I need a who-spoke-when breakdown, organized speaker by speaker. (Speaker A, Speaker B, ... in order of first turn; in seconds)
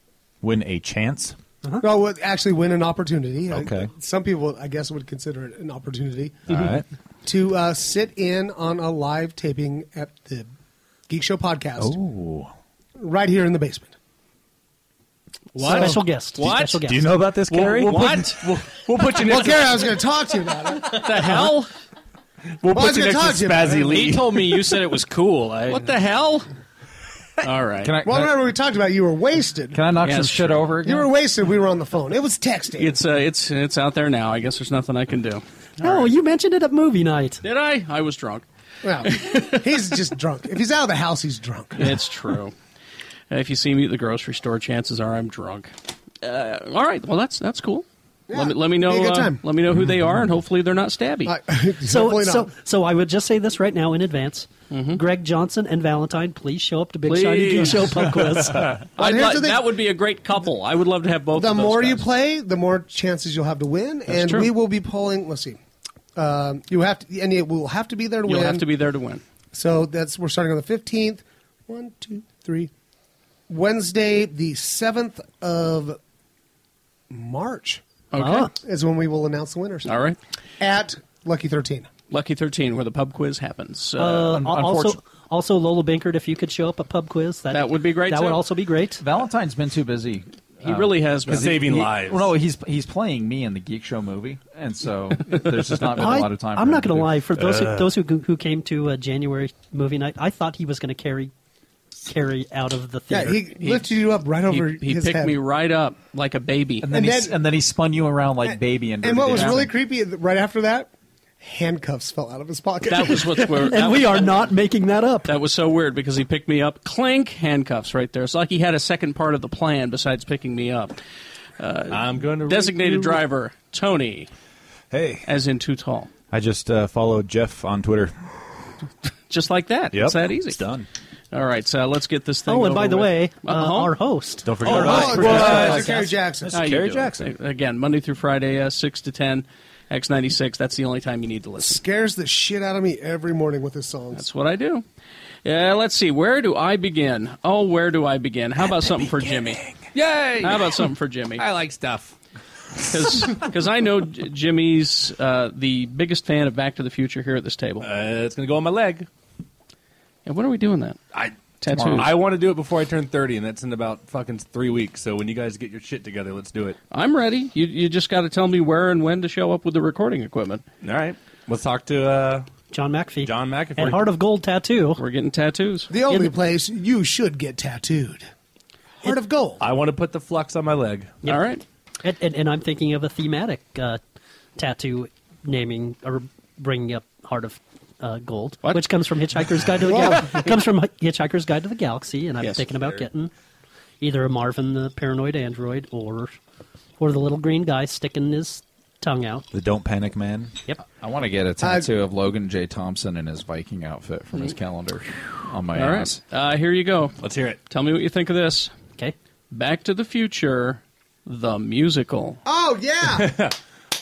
Speaker A: 0.4-1.4, 3.5-3.9, 6.5-6.8, 11.8-12.5, 16.4-18.2, 97.6-97.8, 124.9-125.2, 126.3-128.2, 129.9-130.9, 134.4-135.8, 136.5-137.3, 199.5-200.5
Speaker B: 1.8-6.6, 7.2-10.5, 11.1-12.0, 13.0-13.9, 19.2-21.4, 22.7-24.1, 28.0-29.8, 30.8-33.0, 38.8-42.0, 48.3-49.4, 51.2-52.5, 58.8-59.8, 61.4-65.6, 66.1-68.7, 69.5-72.7, 73.5-76.0, 77.1-77.8, 78.5-80.0, 80.6-81.9, 103.1-105.4, 106.9-107.4, 108.5-110.9, 111.4-113.6, 134.7-136.5, 141.6-144.2, 175.9-178.3, 179.0-179.6, 189.8-190.5, 201.6-201.9, 212.4-213.3
Speaker C: 15.6-19.4, 20.8-21.7, 25.7-26.5, 27.4-27.9, 30.0-30.6, 32.8-36.1, 37.4-38.5, 39.0-39.6, 41.8-42.5, 43.3-45.7, 46.2-51.4, 54.7-55.0, 57.0-62.1, 64.1-64.5, 68.2-69.2, 78.1-78.5, 79.8-80.2, 82.1-84.4, 87.5-88.4, 90.6-91.9, 103.6-106.9, 112.9-114.3, 115.2-121.0, 121.6-124.3, 125.2-126.1, 129.3-130.6, 131.3-133.9, 134.8-135.9, 136.5-141.8, 144.1-144.8, 145.4-149.6, 150.4-151.4, 152.8-157.9, 160.2-161.0, 161.6-162.1, 166.9-170.6, 175.0-175.9, 181.2-181.6, 188.6-188.9, 192.4-192.7, 205.7-207.2, 207.7-208.7, 209.5-212.4
Speaker D: 15.6-17.1, 35.8-37.4, 51.8-58.8, 78.2-78.5, 84.0-89.0, 95.9-101.3, 102.0-103.4, 113.6-115.4, 132.5-136.1, 172.7-175.0, 176.1-176.3, 181.2-181.5, 182.0-184.0, 184.6-193.3, 194.0-196.4, 197.0-199.5
Speaker E: 17.9-20.0, 22.6-24.4, 91.3-92.3, 121.9-123.2, 134.6-135.9, 149.9-152.1, 157.8-159.1, 161.9-166.8, 170.8-172.5, 173.2-174.1, 179.6-181.2, 207.2-207.6, 213.0-213.5
Speaker F: 23.7-25.9
Speaker G: 27.8-28.4, 29.7-31.1, 84.2-85.0, 89.0-90.9, 91.7-97.3, 106.8-109.7, 161.7-162.1, 200.9-206.2